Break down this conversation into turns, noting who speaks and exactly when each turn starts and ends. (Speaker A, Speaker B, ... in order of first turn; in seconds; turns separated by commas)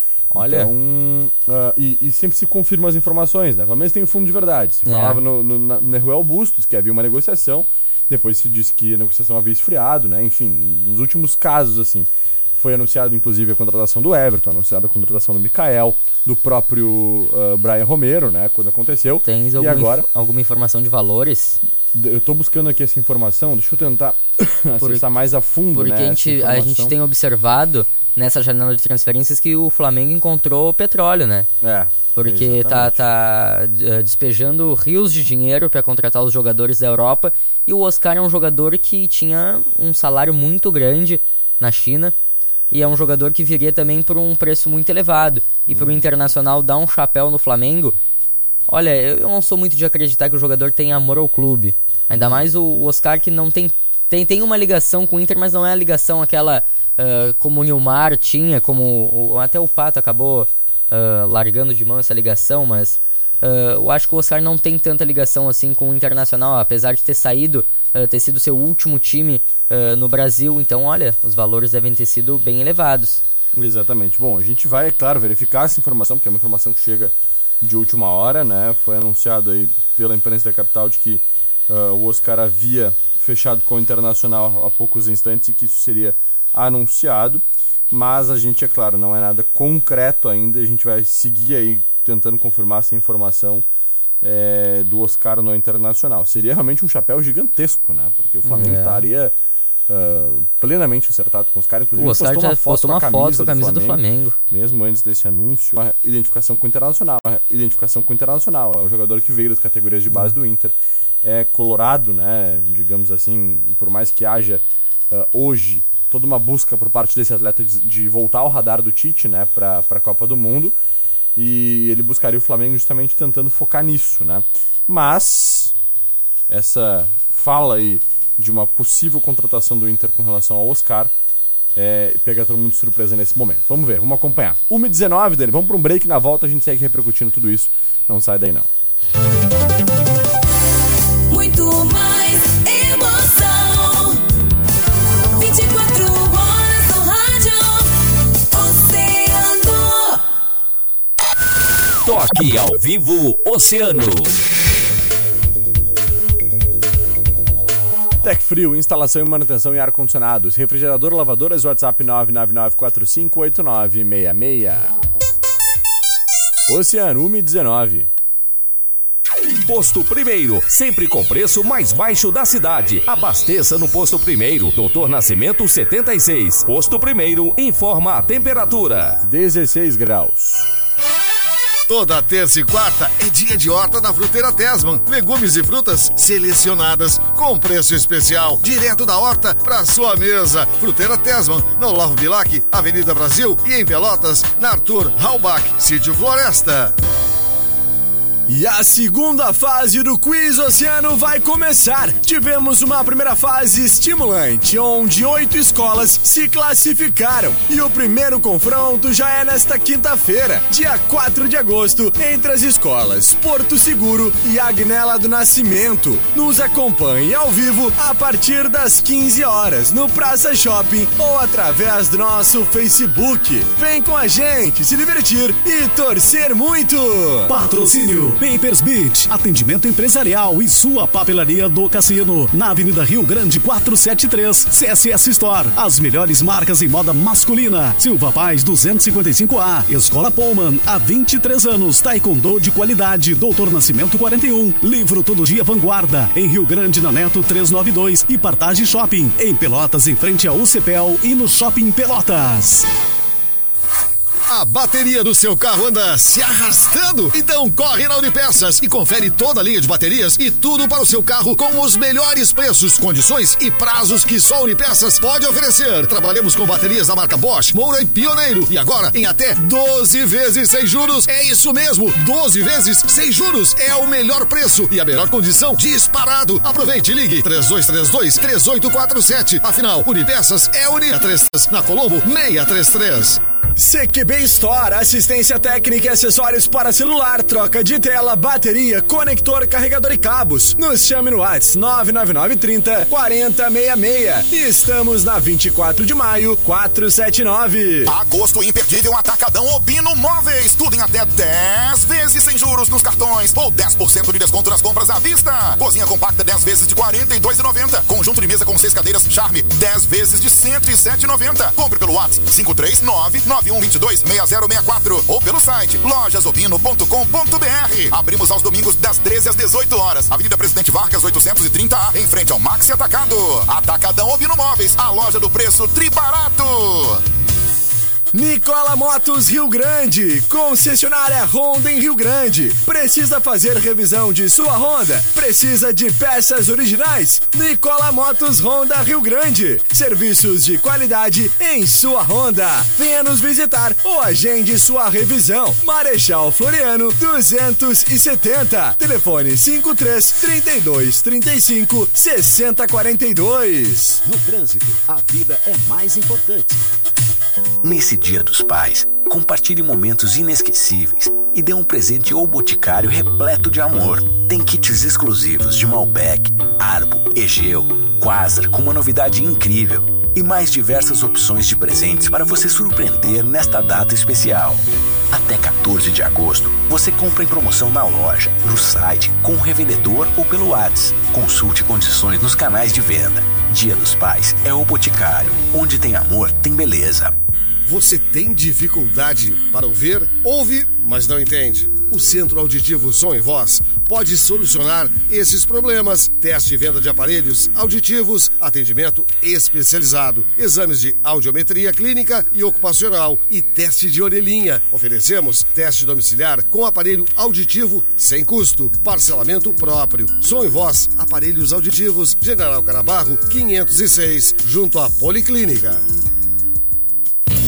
Speaker A: 0.3-0.7, Speaker B: 0.3-20.1, Speaker A: 4.9-5.2, Speaker A: 19.2-21.6, Speaker B: 21.9-27.0, Speaker A: 24.8-25.1, Speaker A: 25.7-31.5, Speaker B: 31.6-33.0, Speaker A: 32.1-42.1, Speaker A: 42.7-48.0, Speaker B: 45.7-46.1, Speaker A: 48.7-73.2, Speaker B: 52.1-52.5, Speaker B: 73.5-93.7, Speaker B: 94.2-99.3, Speaker A: 98.4-99.1, Speaker B: 99.9-120.8, Speaker A: 102.0-104.4, Speaker B: 121.4-125.8, Speaker B: 126.5-131.1, Speaker B: 131.8-138.7, Speaker C: 141.3-144.2, Speaker C: 145.4-150.2, Speaker D: 152.0-154.3, Speaker B: 158.2-164.9, Speaker B: 166.7-168.1, Speaker D: 169.6-179.2, Speaker B: 179.2-180.7, Speaker E: 181.9-196.9, Speaker B: 198.5-227.5, Speaker F: 227.5-252.9, Speaker E: 254.5-283.4, Speaker B: 283.8-298.1, Speaker G: 298.1-327.2, Speaker B: 328.3-354.2, Speaker H: 354.4-356.4, Speaker I: 357.8-387.3, Speaker E: 387.9-416.0